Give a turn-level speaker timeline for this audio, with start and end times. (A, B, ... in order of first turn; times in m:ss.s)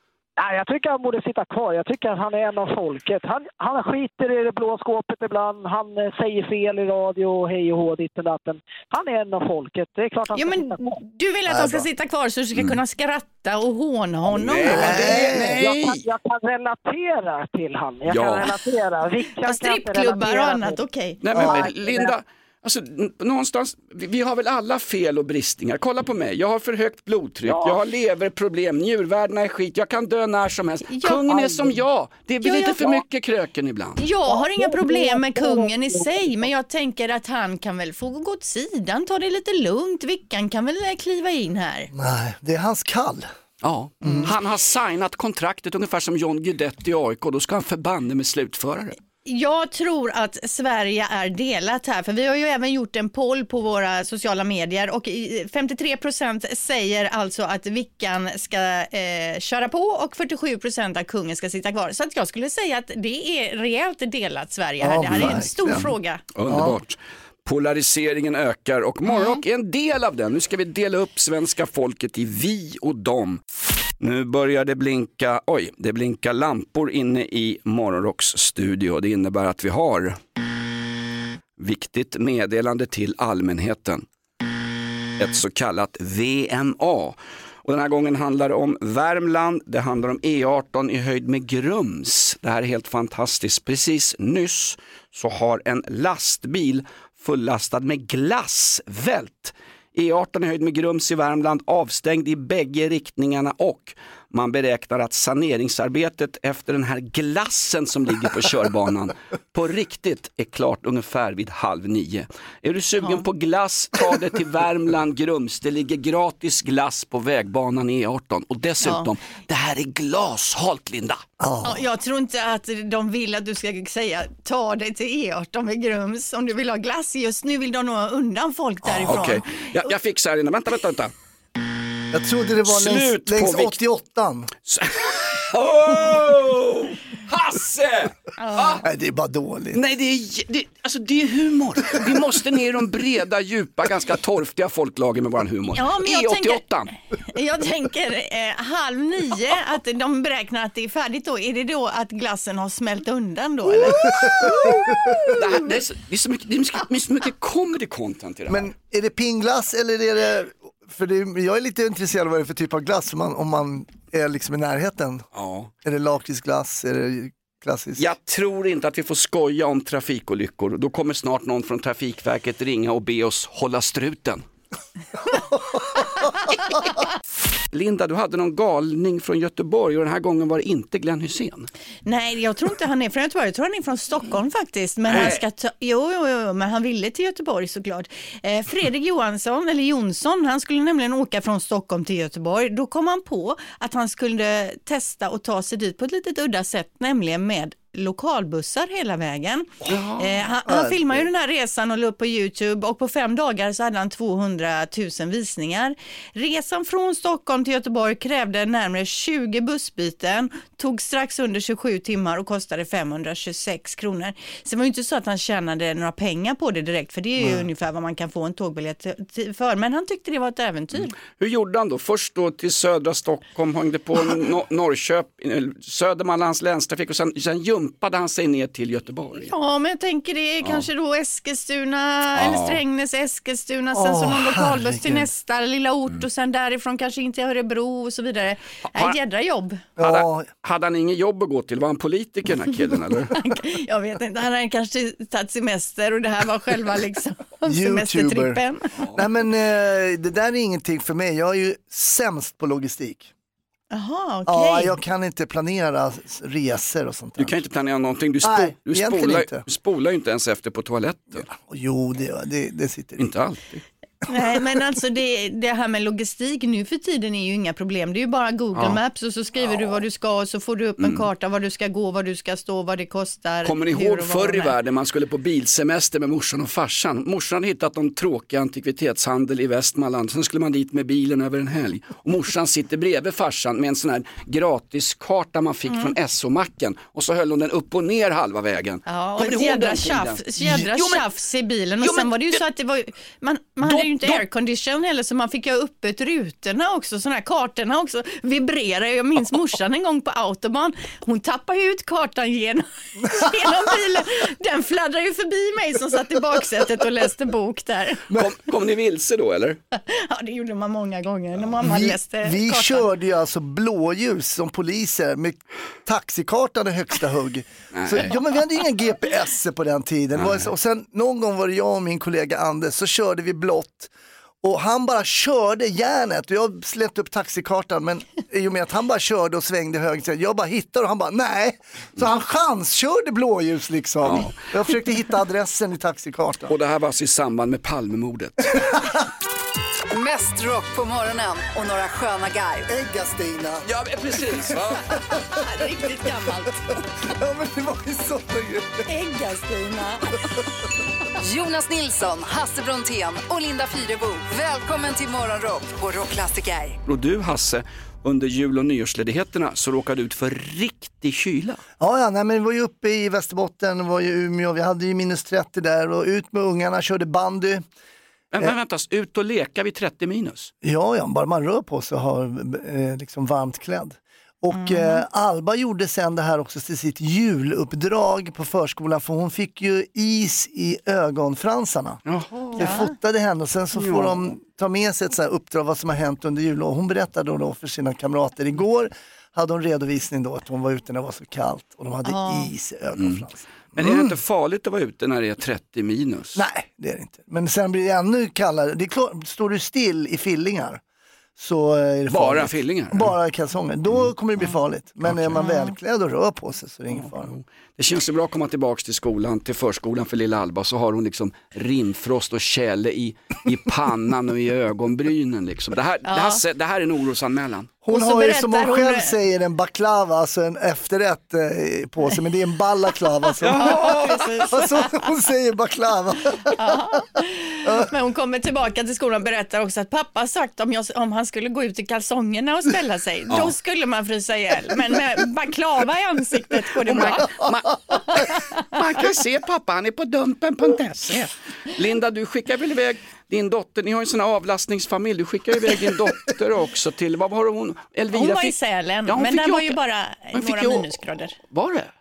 0:00.4-0:10.9 A
0:10.4-0:15.4 B
0:11.5-0:11.9 C
0:14.3-0:16.1 D
0:14.7-0:15.7 C
0:15.0-0:20.8 A
0:18.1-0:18.6 D
0:19.4-0:21.7 B
0:21.2-0:34.0 D
0:21.4-0:22.1 A
0:27.5-0:27.8 A
0:30.9-0:31.3 B
0:31.3-0:31.8 A
0:32.4-0:33.0 B
0:34.0-0:41.9 B
0:34.2-0:36.4 A
0:41.9-0:43.3 C
0:43.6-0:49.0 D
0:44.0-0:44.3 C
0:49.2-1:06.2 B
1:04.8-1:05.9 C
1:06.4-1:13.4 D
1:06.5-1:06.8 C
1:09.1-1:09.4 B
1:14.0-1:20.2 D
1:21.6-1:24.1 D
1:25.2-2:01.2 D
1:58.8-1:59.1 B
2:01.4-2:01.8 C
2:01.6-2:09.5 B
2:08.9-2:09.4 C
2:09.1-2:11.1 D
2:12.1-2:14.5 C
2:12.7-2:13.8 D
2:14.7-2:18.8 D
2:18.4-2:18.8 B
2:18.8-2:19.8 C
2:19.7-2:26.9 D
2:25.8-2:26.6 B
2:27.3-2:34.2 B
2:34.0-2:35.4 C
2:35.3-2:38.7 D
2:38.5-2:45.2 C
2:45.4-2:45.7 D
2:45.8-2:48.1 C
2:48.0-2:54.4 D
2:55.3-2:56.0 C
2:57.7-3:01.7 D
3:02.0-3:41.2 B
3:05.1-3:05.4 D
3:19.9-3:20.4 D
3:20.7-3:21.2 C
3:37.4-3:37.7 C
3:41.3-3:49.5 D
3:49.4-3:59.8 B
3:52.4-3:52.8 D
3:53.9-3:55.3 C
4:00.0-4:00.5 C
4:00.0-4:03.3 D
4:03.3-4:08.9 B
4:07.7-4:08.6 C
4:09.1-4:13.3 C
4:13.9-4:15.0 B
4:14.5-4:17.6 C
4:17.4-4:21.5 D
4:18.4-4:19.6 C
4:21.4-4:23.2 C
4:23.2-4:23.8 D
4:24.3-4:34.7 B
4:28.8-4:29.0 D
4:31.0-4:31.3 D
4:33.6-4:51.3 D
4:49.1-5:08.2 B
4:52.0-4:52.6 D
4:53.8-4:54.4 D
5:08.3-5:09.8 D
5:10.0-5:13.1 B
5:11.8-5:36.7 C
5:18.0-5:18.3 D
5:20.4-5:20.7 D
5:34.2-5:34.6 D
5:36.7-5:39.0 D
5:38.8-5:39.0 C
5:40.1-5:42.9 E
5:42.9-5:45.2 C
5:43.8-5:45.1 D
5:45.3-5:46.9 B
5:47.2-5:49.1 C
5:49.1-5:50.4 B
5:51.4-5:57.0 E
5:57.1-6:01.8 D
6:02.0-6:07.8 C
6:08.5-6:10.7 D
6:10.8-6:22.2 C
6:14.7-6:15.2 B
6:22.3-6:22.9 D
6:22.8-6:34.4 C
6:22.8-6:23.1 B
6:32.2-6:32.7 B
6:33.2-6:33.4 D
6:34.0-6:36.6 D
6:36.6-6:41.0 C
6:41.6-6:47.5 C
6:42.3-6:43.4 D
6:45.2-6:45.6 D
6:45.6-6:45.9 B
6:47.1-6:57.9 D
6:56.3-6:56.6 B
6:58.0-7:07.0 C
6:58.1-6:59.3 B
7:03.6-7:04.7 D
7:03.8-7:05.3 B
7:06.6-7:17.5 B
7:17.0-7:28.8 D
7:18.4-7:18.7 B
7:28.3-7:31.6 B
7:29.3-7:30.0 D
7:30.5-7:32.1 D